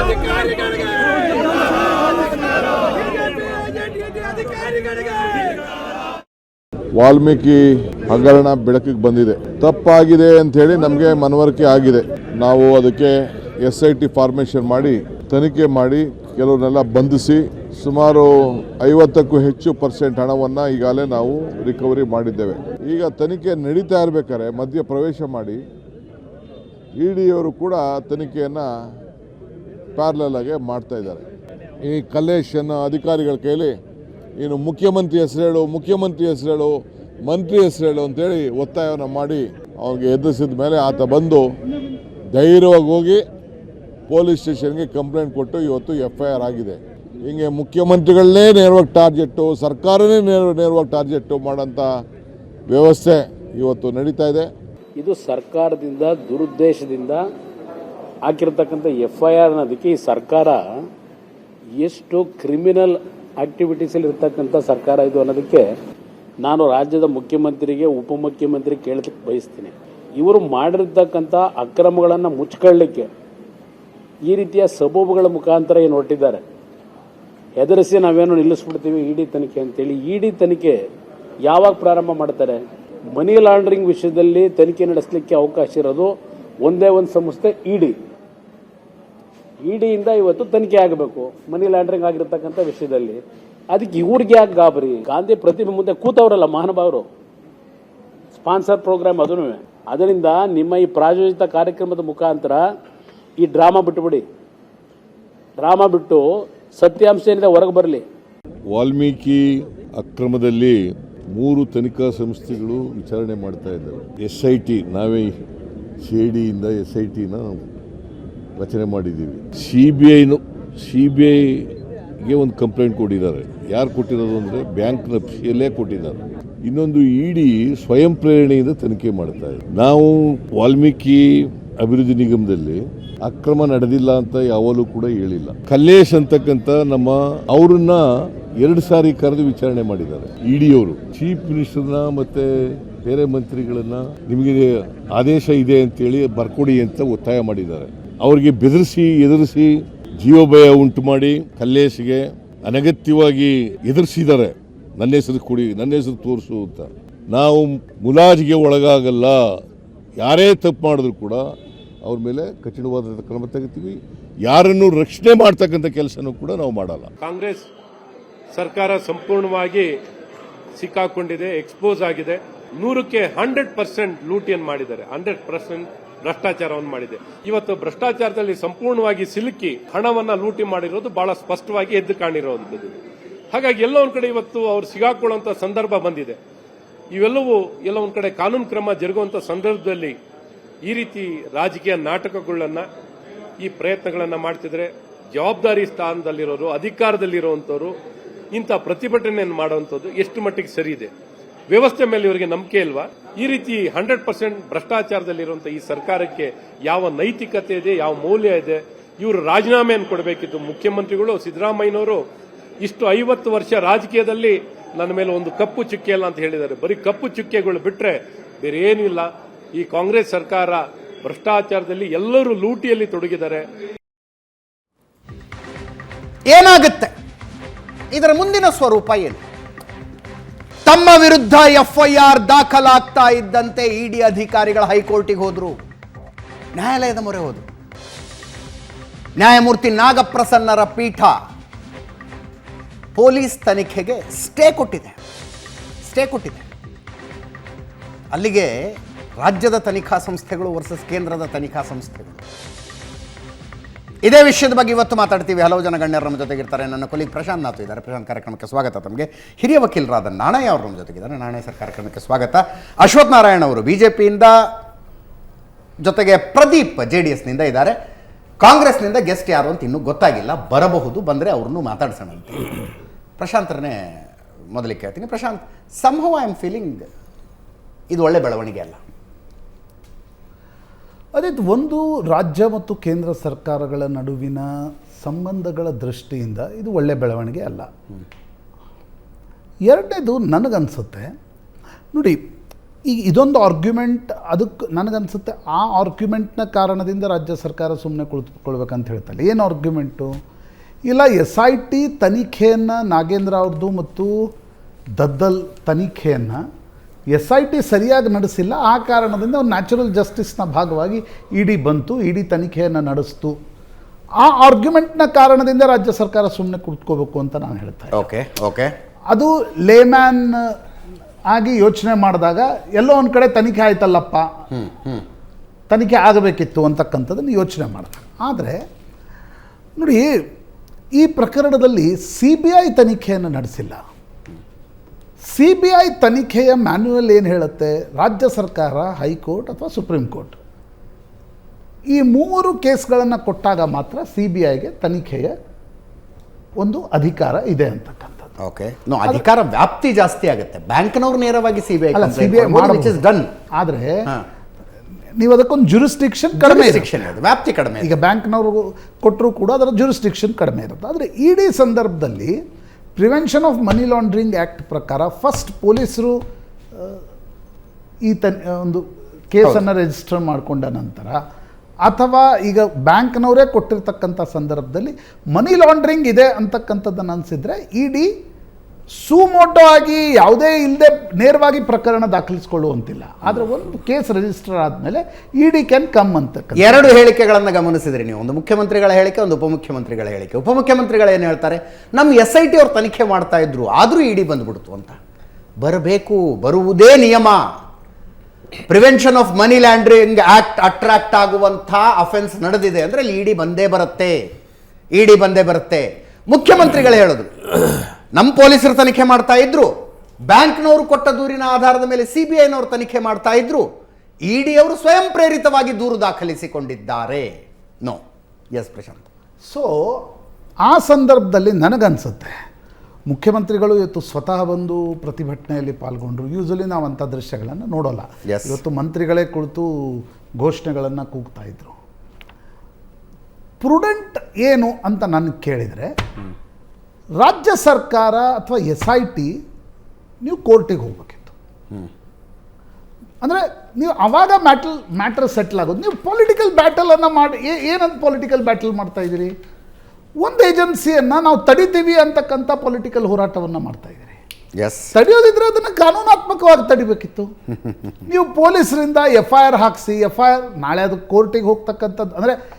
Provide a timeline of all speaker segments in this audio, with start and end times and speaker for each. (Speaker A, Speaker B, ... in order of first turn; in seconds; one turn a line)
Speaker A: 7.0-13.1
Speaker A: 13.6-18.3
Speaker A: 18.8-25.6
Speaker A: 27.0-28.6
Speaker A: 30.0-31.2
Speaker A: 31.8-33.7
Speaker A: 34.4-36.7
Speaker A: 37.3-41.4
Speaker A: 42.3-43.2
Speaker A: 44.1-51.9
Speaker A: 52.7-54.5
Speaker B: 55.0-57.2
Speaker B: 58.3-60.6
Speaker B: 61.8-65.7
Speaker B: 66.4-73.1
Speaker B: 74.3-76.4
Speaker B: 77.6-80.8
Speaker B: 81.5-82.6
Speaker B: 83.2-88.0
Speaker B: 89.7-93.2
Speaker B: 93.7-97.1
Speaker B: 98.3-102.7
Speaker B: 103.4-104.2
Speaker B: 105.6-108.0
Speaker A: 108.7-110.8
Speaker A: 111.3-115.3
Speaker A: 116.0-117.6
Speaker A: 118.6-159.4
Speaker A: 160.2-161.4
Speaker A: 162.0-167.1
Speaker C: 167.2-167.7
Speaker C: 168.5-169.9
Speaker C: 170.8-182.9
Speaker C: 183.5-186.4
Speaker C: 187.1-190.2
Speaker C: 190.8-192.9
Speaker C: 193.6-197.9
Speaker C: 198.5-201.1
Speaker C: 201.7-212.2
Speaker C: 212.8-223.6
Speaker D: 226.5-227.1
Speaker D: 228.1-229.4
Speaker D: 230.8-235.8
Speaker D: 236.8-237.7
Speaker D: 239.4-241.3
Speaker D: 243.2-245.2
Speaker D: 246.0-246.7
Speaker D: 248.3-252.4
Speaker D: 254.2-264.7
Speaker D: 266.0-268.0
Speaker D: 268.6-272.7
Speaker D: 273.4-274.2
Speaker D: 274.7-277.1
Speaker D: 278.1-279.0
Speaker E: 281.3-287.9
Speaker E: 289.9-291.3
Speaker E: 292.1-292.5
Speaker E: 293.1-300.4
Speaker E: 301.1-304.5
Speaker E: 305.2-306.6
Speaker E: 307.3-313.6
Speaker E: 314.4-318.2
Speaker D: 318.1-318.9
Speaker E: 319.3-320.8
Speaker E: 321.5-324.5
Speaker D: 324.7-325.2
Speaker E: 325.9-328.8
Speaker E: 330.0-330.5
Speaker E: 331.2-334.0
Speaker E: 335.5-340.6
Speaker E: 342.1-345.6
Speaker E: 346.8-348.6
Speaker D: 348.6-353.5
Speaker E: 352.1-353.2
Speaker E: 353.8-354.2
Speaker E: 355.4-357.1
Speaker D: 356.6-358.1
Speaker E: 358.0-362.6
Speaker E: 363.2-366.4
Speaker E: 366.9-367.2
Speaker E: 368.2-371.4
Speaker E: 372.0-378.3
Speaker E: 379.2-387.2
Speaker D: 386.8-395.2
Speaker D: 395.8-397.7
Speaker D: 398.9-404.5
Speaker D: 405.1-407.5
Speaker D: 408.4-409.9
Speaker D: 410.5-413.9
Speaker D: 414.5-418.2
Speaker D: 418.7-419.2
Speaker E: 419.7-420.3
Speaker E: 420.9-422.6
Speaker E: 423.3-432.0
Speaker D: 428.5-428.8
Speaker E: 433.8-436.1
Speaker E: 437.4-439.5
Speaker E: 440.4-441.5
Speaker E: 443.4-449.5
Speaker E: 450.4-454.4
Speaker D: 454.8-455.1
Speaker E: 455.1-457.5
Speaker E: 458.2-462.6